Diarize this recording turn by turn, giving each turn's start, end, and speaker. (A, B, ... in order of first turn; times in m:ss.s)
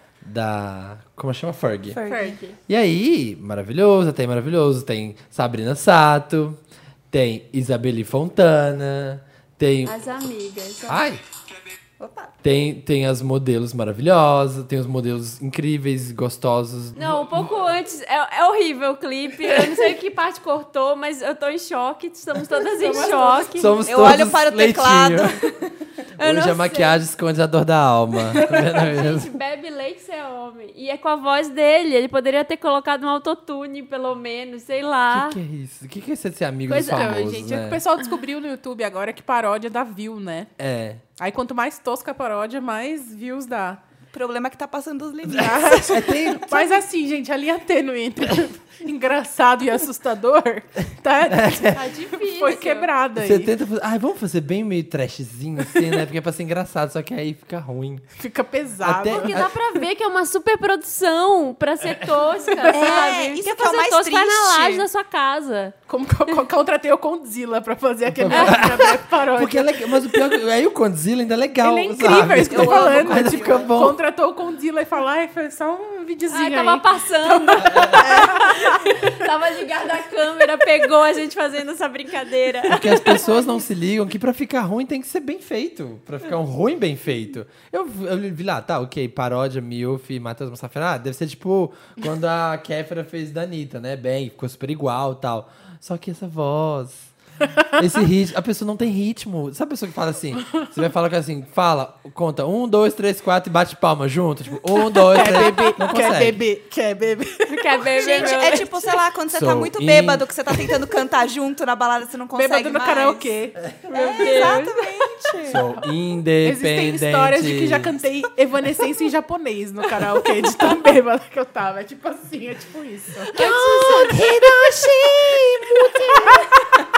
0:00.2-0:02.0 A
0:01.9-0:02.4 B
0:02.1-0:02.4 C
0:02.2-0:02.6 D
0:02.7-0:06.6 A
0:07.1-0:10.0 A
0:09.8-0:11.0 D
0:10.9-0:11.2 A
0:12.0-0:12.3 B
0:12.4-0:17.5 A
0:17.0-0:23.8 D
0:19.4-0:19.9 A
0:22.8-0:23.4 C
0:22.9-0:25.5 B
0:23.6-0:25.4 A
0:26.2-0:27.0 D
0:26.2-0:29.3 A
0:28.8-0:35.4 D
0:35.1-0:37.8 A
0:36.7-0:37.2 D
0:36.8-0:40.5 C
0:40.6-0:41.0 A
0:41.2-0:43.8 C
0:44.1-0:46.6 B
0:45.2-0:53.5 C
0:45.9-0:46.5 A
0:51.3-0:51.8 A
0:51.8-0:52.9 D
0:53.2-0:58.0 A
0:58.2-0:59.4 C
0:58.8-0:59.5 A
0:59.1-1:05.8 D
1:02.7-1:04.9 B
1:05.9-1:09.9 C
1:08.1-1:14.0 A
1:11.6-1:19.0 C
1:12.5-1:13.7 B
1:16.3-1:23.3 D
1:17.7-1:18.0 A
1:22.7-1:37.1 A
1:37.8-1:46.4 A
1:44.9-1:48.4 C
1:47.5-1:48.8 D
1:48.0-1:53.3 B
1:49.3-1:50.3 A
1:52.3-1:53.6 C
1:53.9-1:54.8 D
1:53.9-1:55.6 B
1:55.5-1:57.9 A
1:56.4-2:03.4 C
2:03.3-2:06.5 A
2:03.4-2:04.2 D